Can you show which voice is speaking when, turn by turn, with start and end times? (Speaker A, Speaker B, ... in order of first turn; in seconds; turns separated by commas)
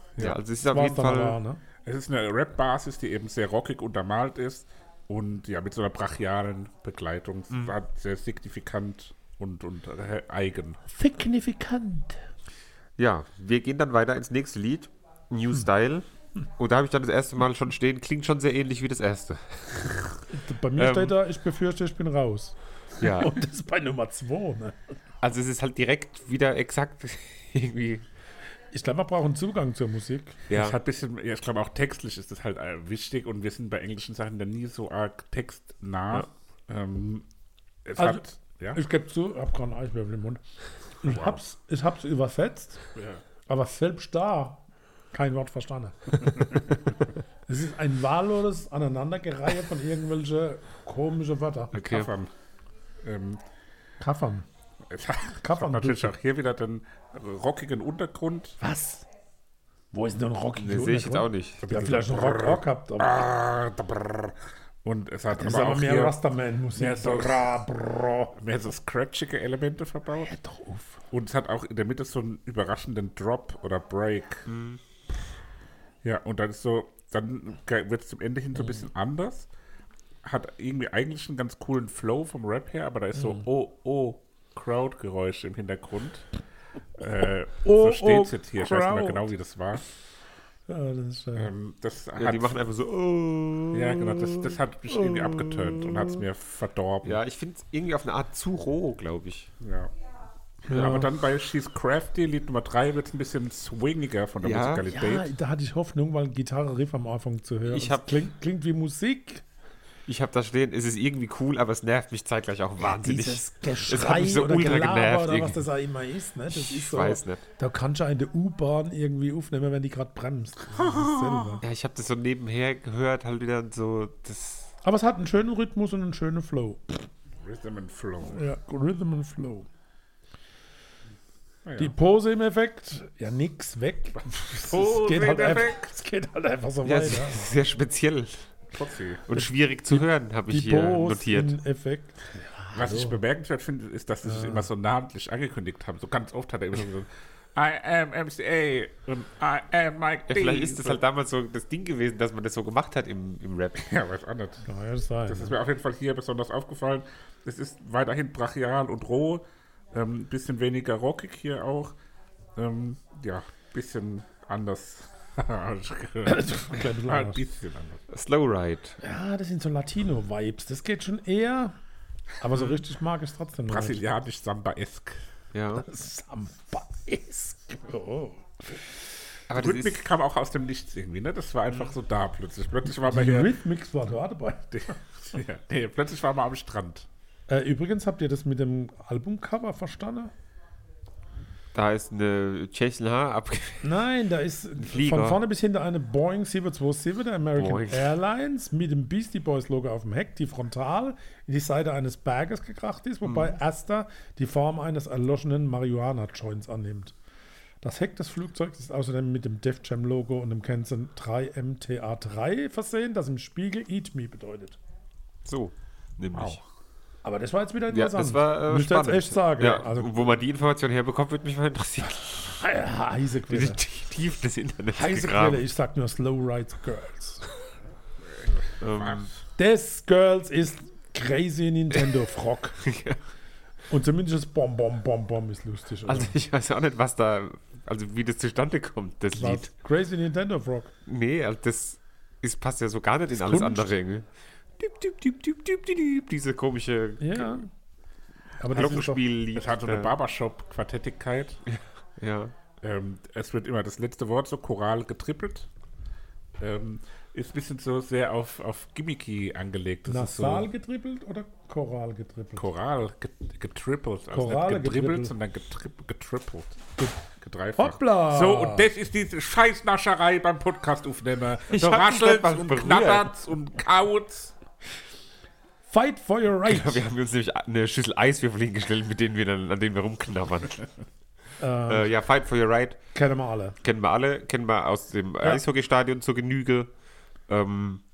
Speaker A: 0.2-1.4, Speaker B: 0.7-1.6, Speaker C: 1.9-10.8, Speaker B: 10.9-12.2, Speaker A: 13.0-16.1, Speaker A: 16.6-20.1, Speaker B: 20.3-24.8, Speaker A: 20.8-21.1, Speaker A: 23.0-23.4, Speaker A: 25.2-28.1, Speaker B: 28.7-30.4, Speaker A: 30.5-30.8, Speaker C: 30.5-37.2, Speaker C: 37.9-38.8, Speaker B: 38.0-40.4, Speaker B: 41.0-42.8, Speaker C: 41.0-41.4, Speaker C: 43.0-43.2, Speaker B: 43.5-46.6, Speaker B: 47.5-51.7, Speaker A: 51.7-52.1, Speaker C: 51.8-52.3, Speaker C: 53.0-53.4, Speaker B: 54.0-54.5, Speaker C: 54.9-58.6, Speaker B: 55.4-56.1, Speaker B: 58.6-59.1, Speaker B: 59.9-63.3, Speaker A: 60.6-61.6, Speaker C: 61.6-66.2, Speaker B: 65.3-68.3, Speaker C: 66.8-67.5, Speaker C: 68.3-70.3, Speaker B: 70.2-71.0, Speaker C: 71.1-74.5, Speaker A: 74.5-74.8, Speaker C: 76.0-79.5, Speaker C: 80.2-86.3, Speaker C: 87.0-89.8, Speaker B: 87.6-89.3, Speaker B: 90.7-91.5, Speaker C: 91.3-92.6, Speaker A: 92.2-94.5, Speaker C: 93.7-97.2, Speaker A: 97.0-99.5, Speaker C: 99.6-99.9, Speaker C: 100.7-105.3, Speaker B: 100.7-101.1, Speaker A: 104.4-104.8, Speaker B: 104.9-109.4, Speaker A: 107.6-108.2, Speaker A: 110.1-115.7, Speaker B: 112.8-121.6, Speaker A: 116.5-117.4, Speaker C: 120.7-121.6, Speaker A: 121.6-124.7, Speaker B: 124.8-127.1, Speaker C: 127.4-128.5, Speaker B: 128.2-129.7, Speaker C: 131.6-131.9, Speaker B: 131.8-137.4, Speaker C: 134.4-135.9, Speaker A: 136.8-138.4, Speaker C: 138.7-139.2, Speaker A: 139.3-141.6, Speaker B: 139.9-143.2, Speaker C: 142.7-151.0, Speaker B: 144.2-144.7, Speaker A: 150.3-153.9, Speaker C: 153.8-154.7, Speaker B: 154.7-155.5, Speaker C: 155.3-161.9, Speaker C: 162.6-168.0, Speaker B: 166.2-167.4, Speaker A: 168.1-169.0, Speaker B: 169.0-171.8, Speaker B: 172.4-174.0, Speaker C: 173.7-175.2, Speaker A: 175.5-175.8, Speaker B: 175.8-178.8, Speaker A: 179.5-180.0, Speaker C: 179.5-183.5, Speaker B: 183.1-184.9, Speaker C: 184.7-187.1, Speaker B: 187.5-190.3, Speaker A: 191.7-193.9, Speaker B: 193.8-207.1, Speaker A: 194.8-195.4, Speaker A: 197.6-198.1, Speaker A: 203.2-203.6, Speaker B: 207.8-214.8, Speaker A: 215.4-216.6, Speaker C: 216.3-216.6, Speaker B: 217.2-220.3, Speaker A: 217.9-222.6, Speaker B: 222.5-223.8, Speaker A: 223.5-225.6, Speaker B: 224.9-227.5, Speaker A: 228.8-229.3, Speaker C: 228.9-229.3, Speaker B: 229.6-232.8, Speaker A: 232.8-233.2, Speaker B: 233.9-236.3, Speaker A: 236.1-239.7, Speaker B: 239.3-240.9, Speaker A: 241.1-247.6, Speaker B: 243.3-243.9, Speaker B: 247.2-247.7, Speaker B: 248.6-249.2, Speaker A: 248.7-250.1, Speaker C: 249.5-251.6, Speaker A: 251.7-252.5, Speaker C: 252.8-255.7, Speaker C: 256.6-260.7, Speaker B: 260.1-262.6, Speaker C: 262.6-266.8, Speaker B: 264.3-265.3, Speaker C: 267.4-274.5, Speaker B: 267.8-268.9, Speaker A: 271.7-273.3, Speaker B: 275.9-277.0, Speaker A: 276.6-280.8, Speaker B: 281.6-282.1, Speaker A: 281.9-283.0, Speaker B: 283.1-283.8, Speaker A: 283.8-286.9, Speaker A: 287.5-288.0